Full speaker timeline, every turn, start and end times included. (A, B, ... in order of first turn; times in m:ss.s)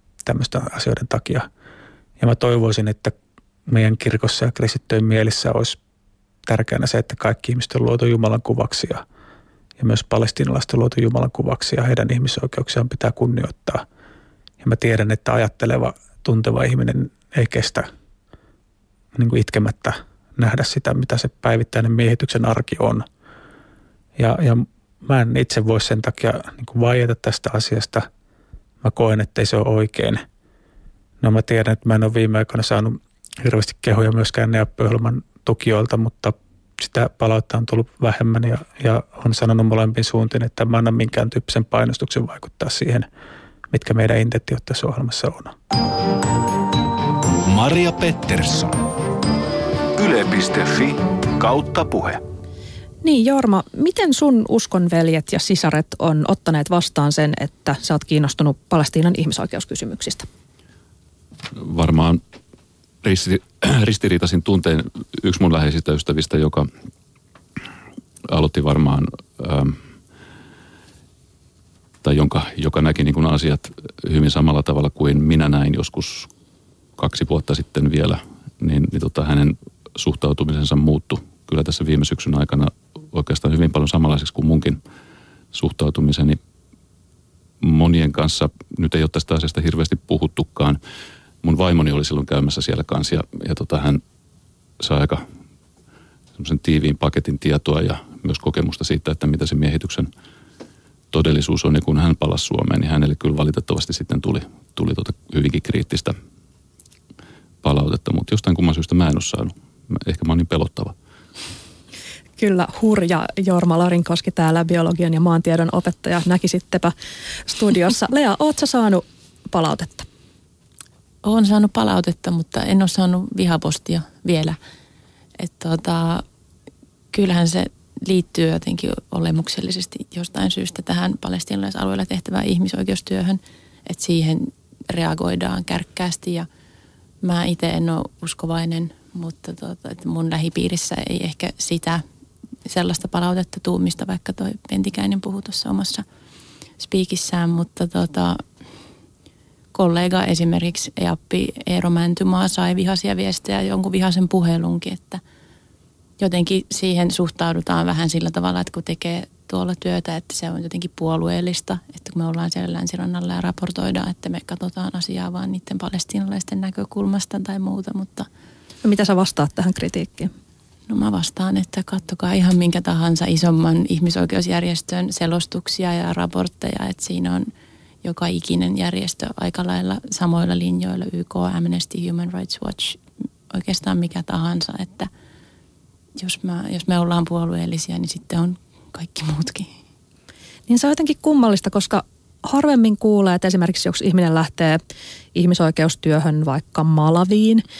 0:00.3-0:01.5 A
0:02.2-0:03.2 A
0:03.7-0:05.8 A
0:06.5-0:09.0 A
0:09.8-0:13.8 A
0:14.6-0:17.9 A
0:19.2-0:23.0 A
0:24.2-0:28.1 A
0:28.8-0:30.2 A
0:31.2-0:43.1 A
0:43.7-0:45.5 A
0:47.4-0:48.8 B
0:50.0-0:52.2 B
0:53.0-1:00.3 C
1:01.5-1:02.2 D
1:03.0-1:06.7 D
1:08.3-1:09.8 D
1:12.0-1:16.3 D
1:17.0-1:24.8 D
1:25.5-1:26.4 D
1:27.6-1:30.8 D
1:31.4-1:34.0 D
1:34.8-1:35.2 D
1:36.4-1:40.1 D
1:41.1-1:46.1 D
1:47.6-1:50.9 D
1:52.4-1:56.9 C
1:57.4-2:00.1 C
2:01.2-2:04.6 E
2:05.4-2:06.2 E
2:07.1-2:16.5 E
2:17.2-2:22.0 E
2:22.7-2:26.0 E
2:26.8-2:28.4 E
2:29.7-2:35.2 E
2:36.2-2:48.3 E
2:48.8-2:50.3 C
2:50.9-2:57.5 E
2:58.0-3:05.1 E
3:06.2-3:09.7 E
3:10.7-3:14.8 C
3:15.4-3:17.6 C